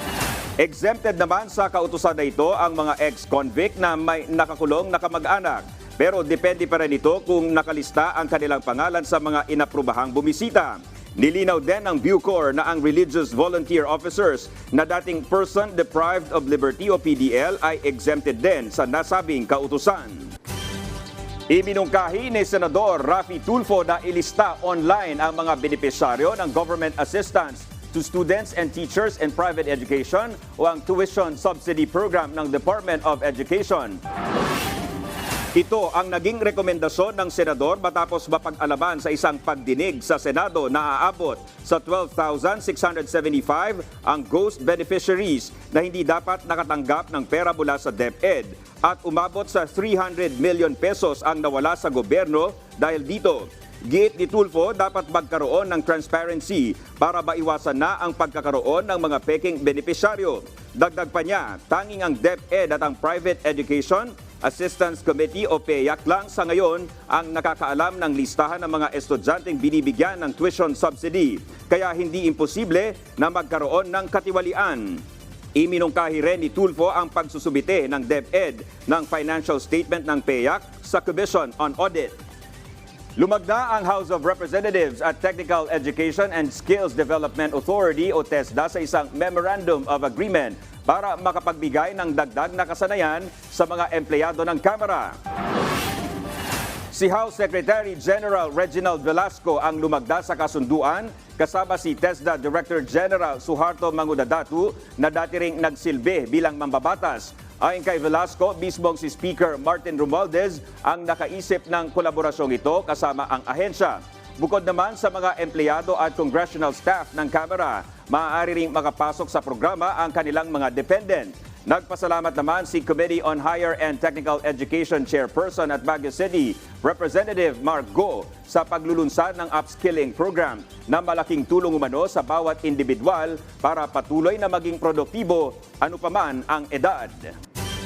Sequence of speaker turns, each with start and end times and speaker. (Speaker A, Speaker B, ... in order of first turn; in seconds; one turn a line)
Speaker A: 0.6-20.3
Speaker A: 21.5-34.0
Speaker A: 35.5-75.0
Speaker A: 75.5-82.2
Speaker A: 83.2-95.2
Speaker A: 96.9-137.3